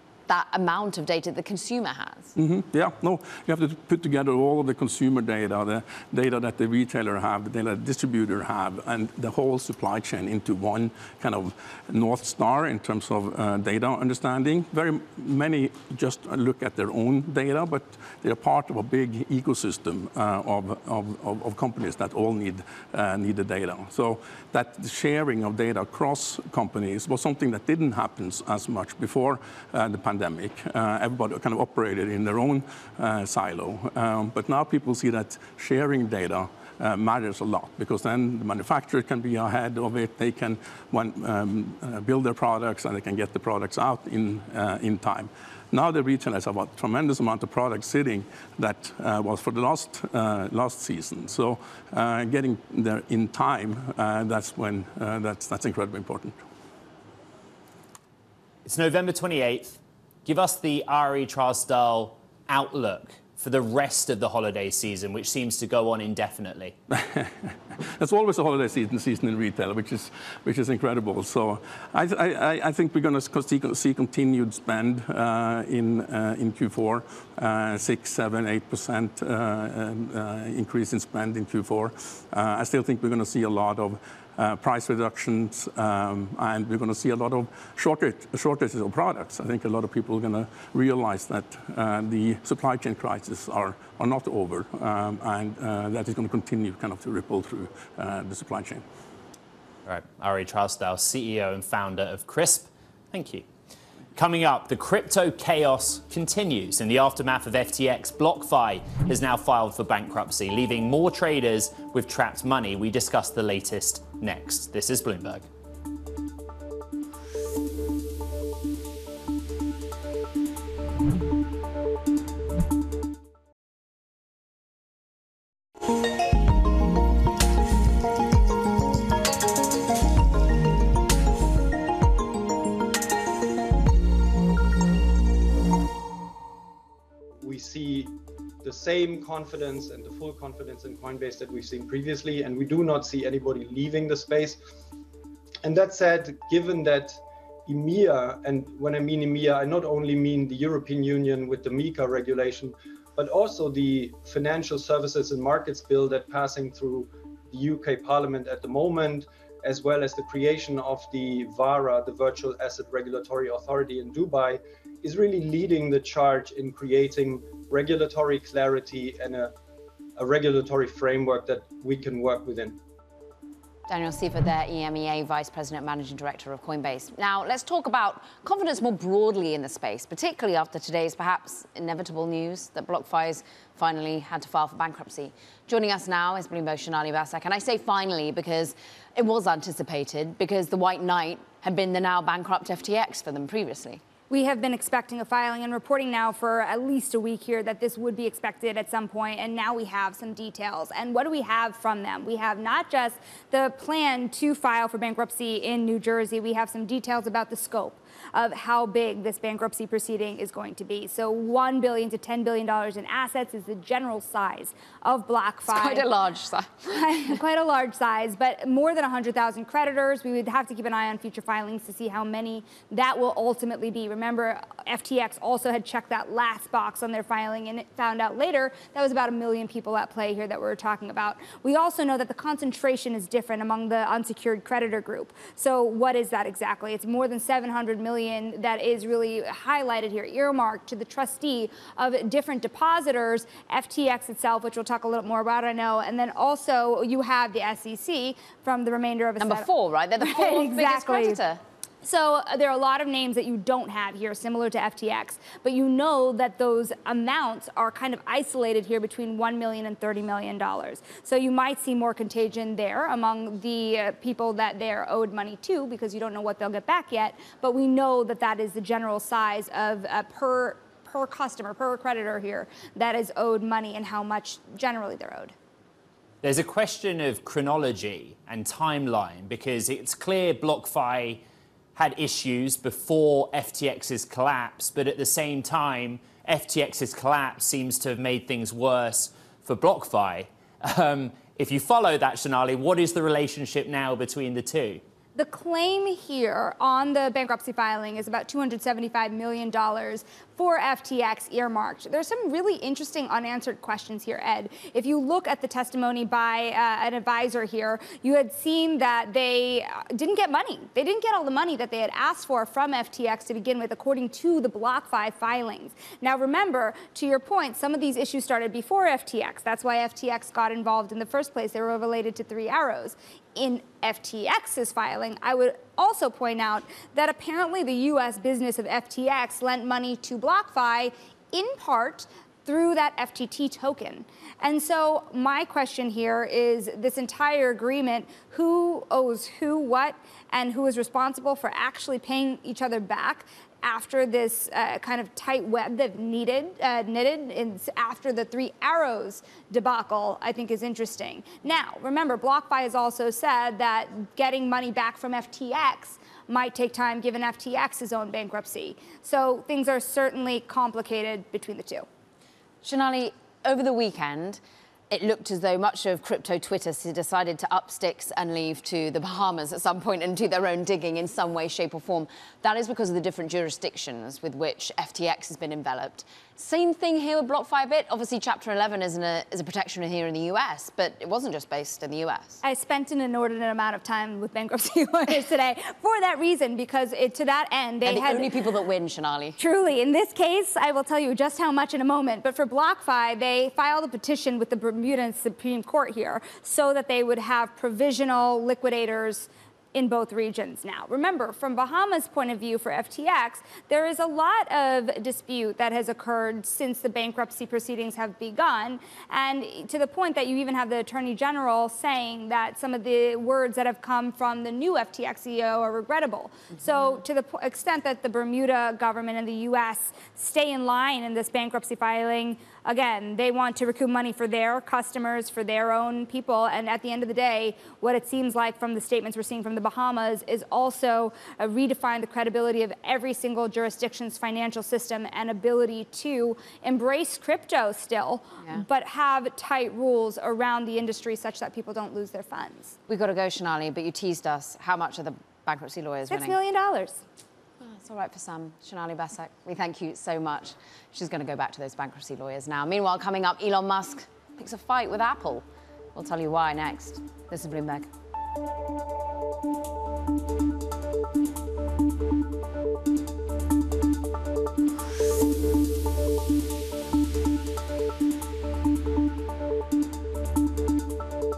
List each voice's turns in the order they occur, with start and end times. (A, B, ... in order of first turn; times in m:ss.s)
0:00.3-0:02.3 A
0:02.4-0:56.4 B
0:58.6-1:06.8 C
1:06.9-1:38.8 B
1:39.9-1:43.5 C
1:44.2-1:55.5 C
2:17.4-2:24.6 D
2:25.6-2:49.5 D
2:50.2-2:52.8 D
2:53.9-3:14.0 A
3:14.3-3:36.1 E
3:35.7-3:37.4 A
3:37.0-4:11.4 E
4:09.4-4:11.6 A
4:12.0-4:35.5 E
4:36.4-4:41.4 C
4:42.0-4:55.0 C
4:55.4-6:02.1 E
6:02.8-6:04.6 A
6:05.1-6:22.6 A
6:22.6-6:28.6 E
6:28.0-6:29.6 A
6:29.6-7:23.0 E
7:23.1-7:26.6 A
7:26.3-7:27.2 E
7:27.8-7:35.6 A
7:36.2-7:38.1 A